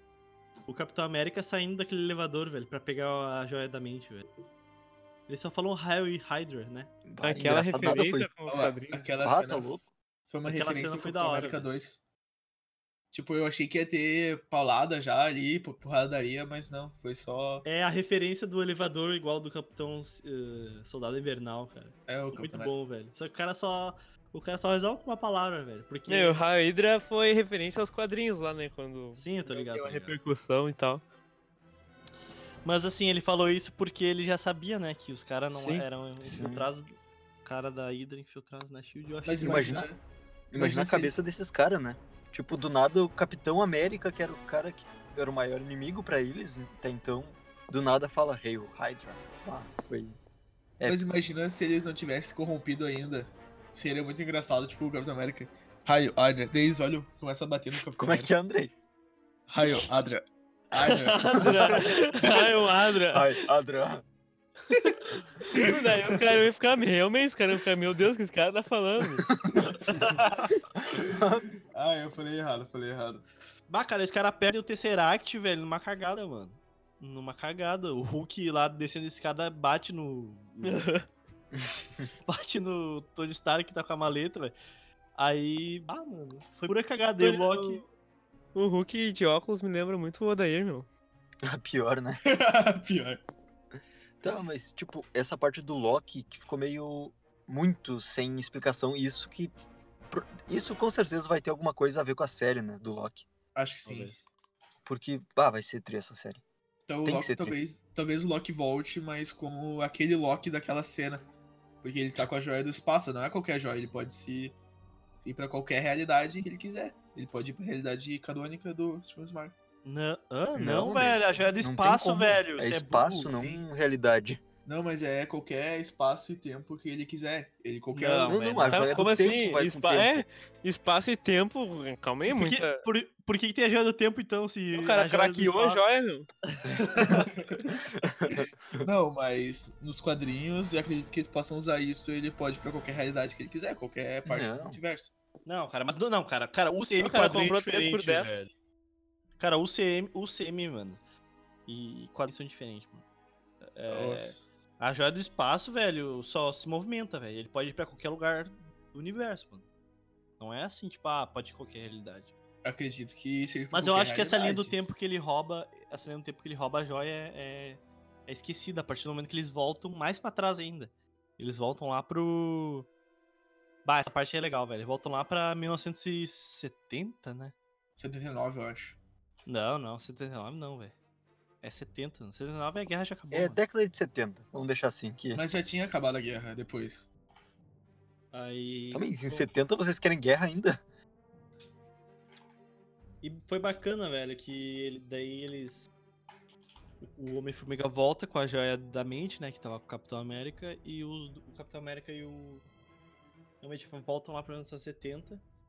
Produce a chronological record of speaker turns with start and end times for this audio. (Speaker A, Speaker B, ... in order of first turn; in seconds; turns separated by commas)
Speaker A: 0.7-4.3, Speaker A: 5.3-6.9, Speaker B: 7.1-8.3, Speaker C: 7.2-9.1, Speaker D: 8.4-9.8, Speaker B: 9.2-9.8, Speaker D: 10.3-12.0, Speaker A: 10.4-11.7, Speaker D: 13.1-17.6, Speaker A: 17.6-26.4, Speaker D: 22.1-22.7, Speaker C: 26.1-31.0, Speaker A: 29.2-30.2, Speaker A: 32.6-39.8, Speaker C: 35.5-35.8, Speaker B: 36.2-36.7, Speaker D: 39.2-40.0, Speaker B: 39.4-39.8, Speaker B: 40.5-50.2, Speaker D: 40.5-41.1, Speaker D: 50.8-58.3, Speaker B: 58.0-58.7, Speaker D: 59.5-61.7, Speaker C: 61.2-63.3, Speaker A: 61.2-61.8, Speaker B: 63.1-64.0, Speaker C: 65.5-69.3, Speaker A: 69.9-70.2, Speaker D: 71.0-73.2, Speaker B: 71.0-71.4, Speaker A: 73.7-80.8, Speaker C: 80.7-81.0, Speaker A: 82.2-84.5, Speaker A: 85.2-87.8, Speaker C: 87.2-87.8, Speaker C: 88.5-90.9, Speaker B: 91.5-92.2, Speaker D: 92.2-93.2, Speaker B: 94.2-99.5, Speaker B: 100.1-103.3, Speaker D: 103.5-104.2, Speaker A: 103.8-104.2, Speaker B: 104.8-106.4, Speaker D: 106.9-111.2, Speaker B: 107.0-107.6, Speaker D: 111.8-114.5, Speaker D: 115.2-119.5, Speaker A: 119.8-123.6, Speaker B: 120.5-124.4, Speaker D: 124.7-128.6, Speaker A: 127.9-129.4, Speaker B: 128.2-130.2, Speaker C: 128.7-132.8, Speaker A: 132.3-135.8, Speaker C: 134.7-136.3, Speaker A: 136.5-137.3, Speaker B: 138.0-138.9, Speaker D: 138.8-145.1, Speaker B: 144.2-144.8, Speaker A: 145.4-148.5, Speaker C: 147.0-148.5, Speaker A: 149.4-151.0, Speaker A: 151.7-153.0, Speaker A: 153.6-159.7, Speaker D: 153.9-154.4, Speaker A: 160.4-162.3, Speaker D: 162.6-164.8, Speaker A: 163.7-172.9, Speaker A: 173.8-177.5, Speaker D: 178.0-179.0, Speaker A: 179.4-180.9, Speaker A: 181.6-183.6, Speaker B: 183.3-185.4, Speaker D: 185.3-187.1, Speaker A: 188.3-189.5, Speaker B: 188.9-190.8, Speaker A: 193.2-195.9, Speaker A: 197.0-202.6, Speaker A: 203.6-205.4